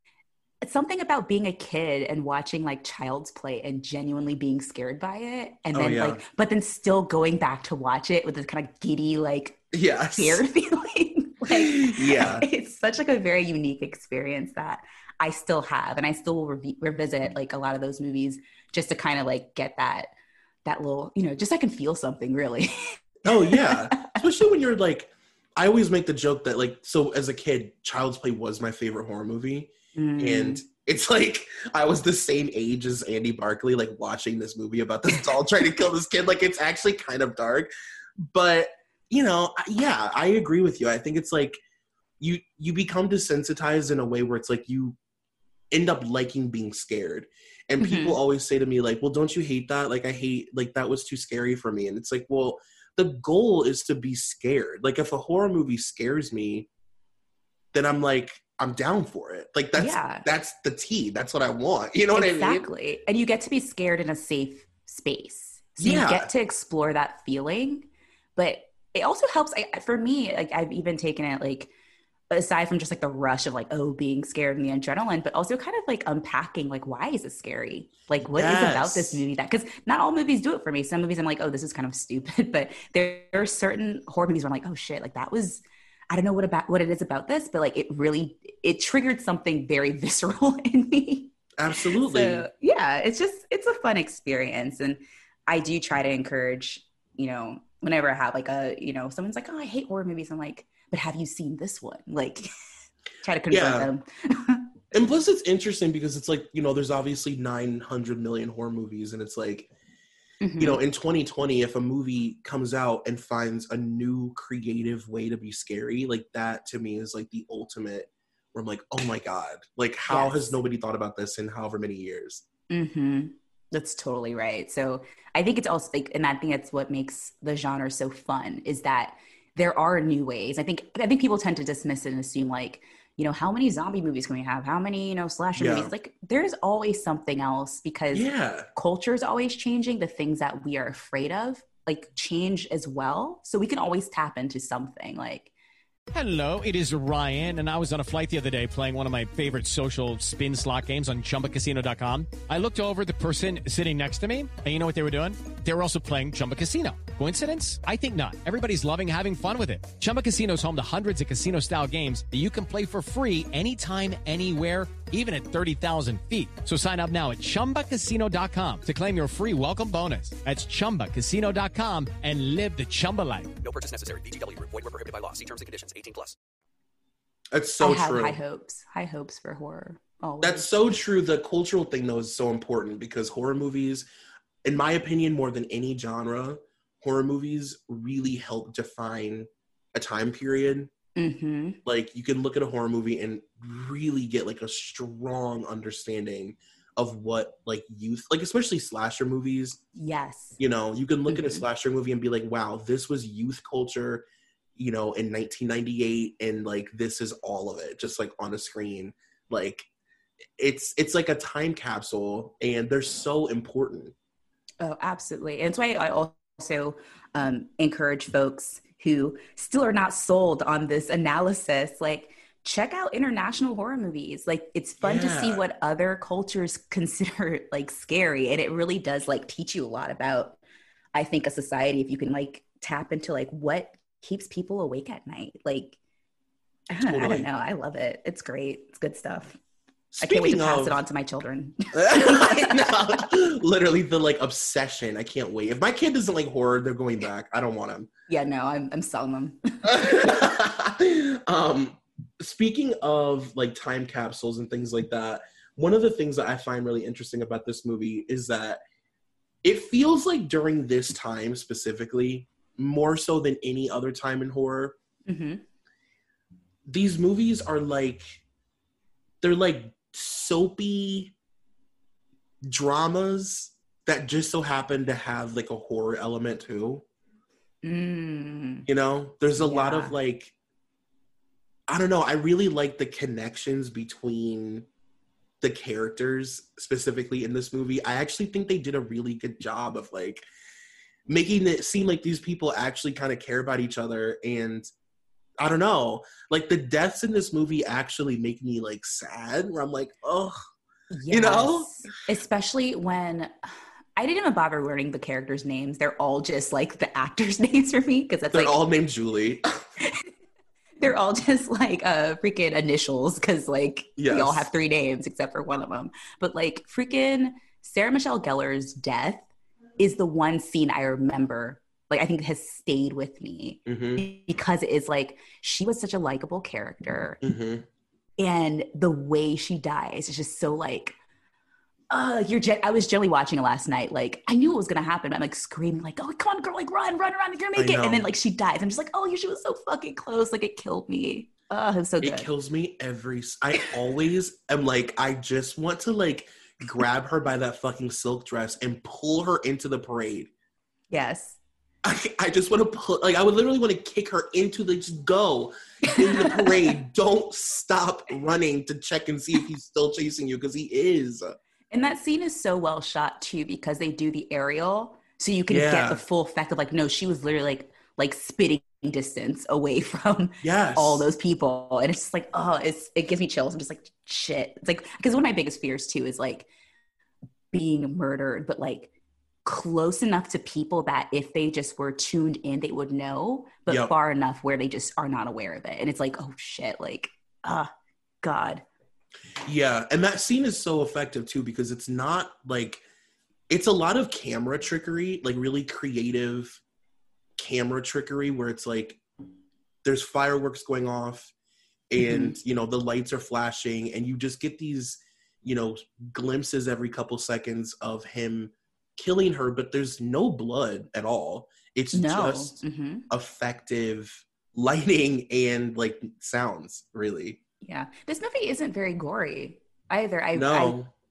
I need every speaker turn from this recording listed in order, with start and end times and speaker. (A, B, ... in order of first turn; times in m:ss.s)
0:00.6-0:20.1 A
0:05.7-0:06.2 B
0:09.7-0:10.4 B
0:11.5-0:12.4 B
0:20.6-0:24.1 A
0:23.2-0:41.6 B
0:29.9-0:30.6 A
0:42.2-0:45.0 B
0:45.7-0:56.7 B
0:47.8-0:48.2 A
0:57.7-1:02.7 B
0:59.8-1:00.2 A
1:02.1-1:11.7 A
1:05.8-1:06.3 B
1:12.3-1:42.5 A
1:18.3-1:19.2 B
1:31.6-1:32.5 B
1:43.2-1:44.7 A
1:43.5-1:43.9 B
1:44.9-1:49.7 B
1:50.4-1:50.8 A
1:50.6-2:02.4 B
2:00.1-2:00.6 A
2:02.7-2:25.5 A
2:15.6-2:15.9 B
2:18.1-2:18.7 B
2:26.1-2:53.5 C
2:53.6-2:56.4 D
2:57.5-2:58.4 B
2:57.8-3:00.7 A
3:00.4-3:04.1 B
3:04.6-3:10.9 B
3:11.2-3:11.8 A
3:11.8-3:19.8 B
3:19.9-3:20.6 A
3:20.6-3:29.9 B
3:21.3-3:21.6 A
3:30.6-3:34.1 B
3:34.8-3:50.6 A
3:45.0-3:45.6 B
3:51.1-3:56.0 A
3:56.9-3:59.6 A
3:57.0-3:57.5 B
4:00.1-4:01.0 B
4:00.2-4:03.3 A
4:01.9-4:08.1 B
4:08.3-4:10.3 A
4:09.8-4:18.8 B
4:19.6-4:25.0 B
4:25.3-4:25.6 A
4:26.8-4:28.4 B
4:29.4-4:31.3 B
4:32.6-4:37.0 B
4:37.8-4:38.9 A
4:38.8-4:40.5 B
4:39.6-4:40.1 A
4:41.9-4:44.9 B
4:45.6-4:50.5 B
4:51.3-4:54.9 B
4:55.6-5:00.6 B
5:01.1-5:03.5 A
5:01.3-5:01.9 B
5:04.2-5:08.8 A
5:08.5-5:09.8 B
5:11.0-5:19.5 A
5:14.2-5:14.7 B
5:20.0-5:27.4 A
5:23.8-5:24.2 B
5:27.4-5:27.8 B
5:28.4-5:31.2 A
5:32.1-5:42.5 A
5:37.8-5:38.3 B
5:42.2-5:50.5 B
5:51.1-5:51.6 A
5:52.0-6:01.6 B
5:56.1-5:56.9 A
6:01.9-6:16.7 A
6:05.7-6:06.2 B
6:10.6-6:11.2 B
6:17.7-6:19.1 A
6:19.6-6:27.9 A
6:28.4-6:28.8 A
6:29.6-6:33.0 B
6:33.7-6:36.8 B
6:37.6-6:39.2 B
6:40.0-6:41.5 B
6:42.1-6:52.8 B
6:42.2-6:42.6 A
6:52.1-6:53.2 A
6:53.3-6:57.6 B
6:57.8-7:01.0 A
7:00.5-7:01.1 B